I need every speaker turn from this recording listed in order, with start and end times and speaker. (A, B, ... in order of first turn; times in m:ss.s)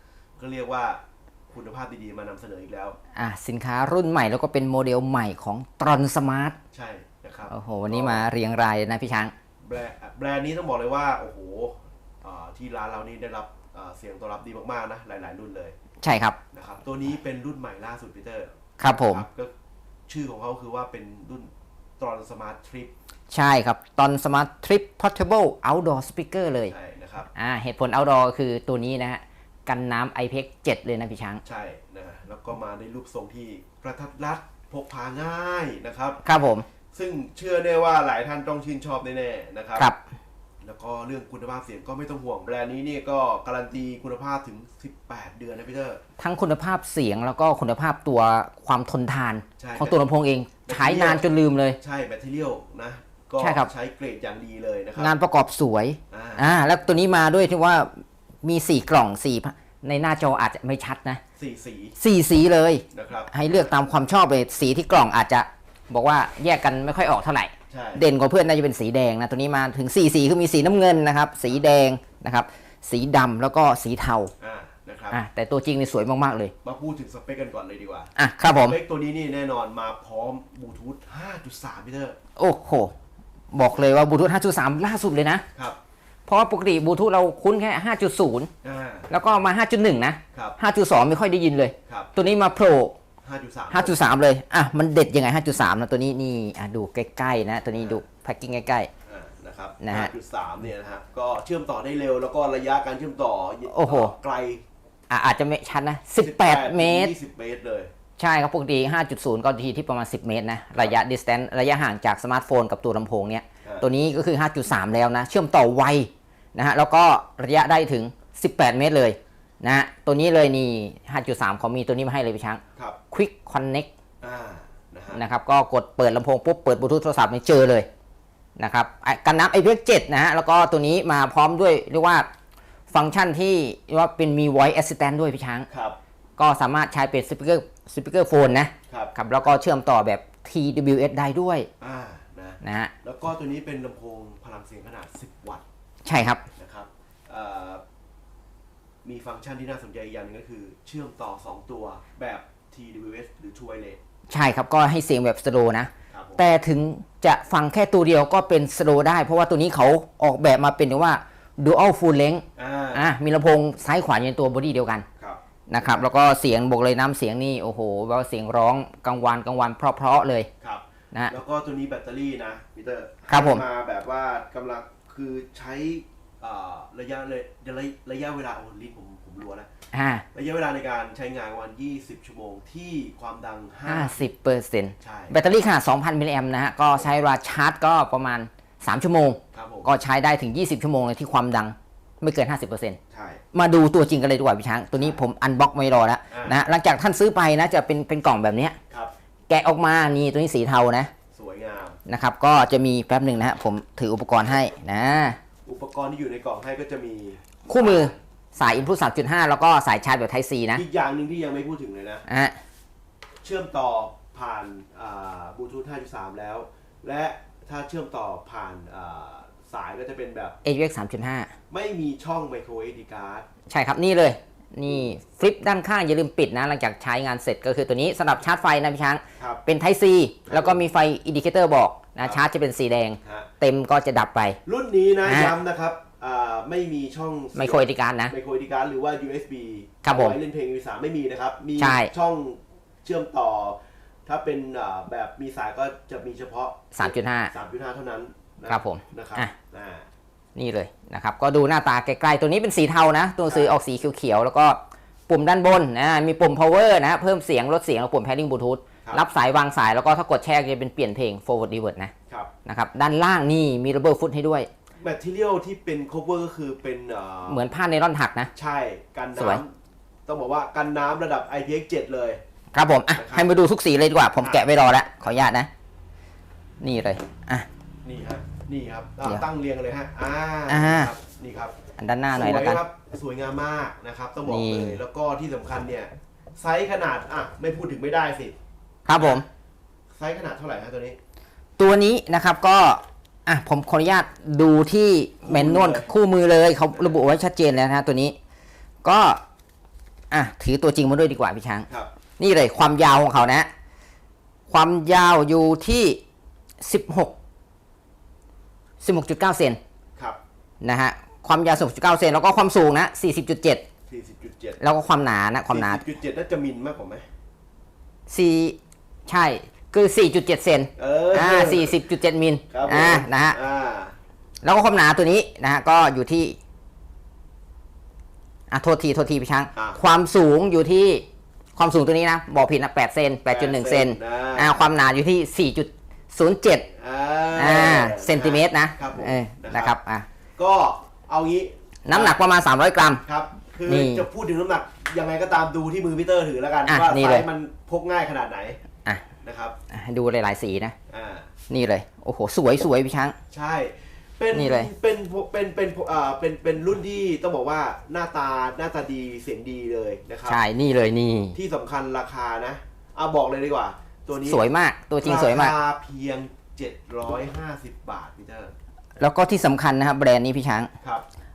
0:00.4-0:03.0 A
0:03.1-0:06.6 B
0:06.7-0:08.3 A
0:07.5-0:09.3 B
0:09.6-0:15.7 A
0:16.0-0:16.4 B
0:16.5-0:18.5 A
0:18.8-0:19.2 B
0:19.0-0:19.5 A
0:20.1-0:22.9 A
0:23.3-0:26.7 B
0:26.7-0:27.3 A
0:27.3-0:31.4 B
0:31.4-0:36.2 A
0:36.2-0:36.6 B
0:36.9-0:39.9 A
0:40.6-0:46.0 A
0:46.2-0:51.8 B
0:49.6-0:50.0 A
0:50.6-0:55.1 A
0:53.4-0:53.7 B
0:55.0-1:01.2 B
0:56.1-0:56.4 A
1:01.4-1:02.0 A
1:02.0-1:14.3 B
1:02.9-1:03.6 A
1:07.7-1:08.0 A
1:14.4-1:15.2 A
1:15.1-1:16.5 B
1:16.6-1:22.2 A
1:18.2-1:18.8 B
1:22.4-1:22.9 B
1:23.5-1:25.4 B
1:26.3-1:28.5 B
1:28.6-1:29.1 A
1:29.1-1:33.0 B
1:31.9-1:32.1 A
1:33.2-1:34.0 A
1:33.7-1:38.9 B
1:37.7-1:38.0 A
1:39.1-1:44.6 A
1:39.8-1:40.1 B
1:43.7-1:44.1 B
1:45.1-1:47.1 B
1:46.2-1:47.9 A
1:48.2-2:03.9 B
2:04.2-2:05.2 A
2:05.1-2:07.9 B
2:08.6-2:12.2 B
2:12.9-2:15.7 B
2:15.7-2:16.0 A
2:16.4-2:21.7 B
2:18.9-2:19.1 A
2:21.8-2:25.6 A
2:22.6-2:22.9 B
2:26.0-2:26.4 B
2:26.6-2:27.8 A
2:29.0-2:34.0 A
2:34.3-2:45.0 B
2:36.1-2:36.4 A
2:42.6-2:43.1 A
2:45.2-2:46.1 A
2:45.7-2:50.5 B
2:50.6-2:59.7 A
2:53.3-2:53.6 B
2:59.9-3:00.2 B
3:00.3-3:04.2 A
3:03.8-3:13.0 B
3:05.0-3:05.4 A
3:09.5-3:09.9 A
3:13.1-3:13.4 A
3:13.5-3:18.8 B
3:15.0-3:15.2 A
3:16.3-3:16.6 A
3:19.5-3:21.1 B
3:21.3-3:22.0 A
3:22.1-3:25.4 B
3:25.6-3:28.2 A
3:27.7-3:30.8 B
3:30.7-3:32.3 A
3:32.3-3:32.6 B
3:33.4-3:40.6 A
3:40.6-3:41.5 B
3:41.7-3:43.5 A
3:43.7-3:54.6 B
3:49.4-3:49.6 A
3:50.5-3:50.8 A
3:53.2-3:53.5 A
3:54.6-4:10.0 A
3:55.2-3:55.5 B
3:57.5-3:58.3 B
4:00.0-4:00.4 B
4:01.8-4:02.1 B
4:07.0-4:07.5 B
4:08.6-4:09.5 B
4:10.6-4:22.1 B
4:13.5-4:13.8 A
4:22.6-4:24.7 B
4:25.0-4:27.6 A
4:27.5-4:28.5 B
4:28.5-4:29.7 A
4:29.4-4:29.6 B
4:30.3-4:32.4 A
4:32.7-4:35.7 B
4:33.1-4:33.6 A
4:34.4-4:35.5 A
4:36.8-4:37.7 B
4:38.0-4:41.7 A
4:40.7-4:41.1 B
4:42.0-4:42.8 B
4:42.3-4:48.6 A
4:44.4-4:45.0 B
4:49.1-4:49.4 B
4:49.1-4:49.4 A
4:50.2-4:51.2 A
4:51.8-4:58.4 B
4:55.4-4:56.1 A
4:56.9-4:57.2 A
4:59.0-4:59.4 B
5:00.3-5:01.9 B
5:02.4-5:03.7 B
5:04.7-5:06.2 B
5:06.8-5:07.3 B
5:09.0-5:09.8 B
5:10.8-5:13.8 B
5:14.1-5:14.8 A
5:14.8-5:16.0 B
5:15.7-5:17.2 A
5:18.3-5:23.6 B
5:21.0-5:22.0 A
5:22.7-5:24.2 A
5:24.6-5:26.6 B
5:28.7-5:31.2 B
5:31.8-5:36.9 B
5:33.4-5:34.8 A
5:36.9-5:40.0 A
5:37.6-5:40.3 B
5:40.6-5:42.4 A
5:42.0-5:43.2 B
5:43.2-5:48.8 A
5:43.9-5:44.2 B
5:46.9-5:47.4 B
5:49.4-5:49.8 A
5:49.9-5:50.9 B
5:51.1-5:51.5 A
5:51.7-5:53.3 B
5:53.5-6:00.6 A
5:54.5-5:54.9 B
6:00.4-6:01.6 B
6:01.5-6:04.6 A
6:04.4-6:05.7 B
6:05.2-6:08.7 A
6:09.2-6:10.9 B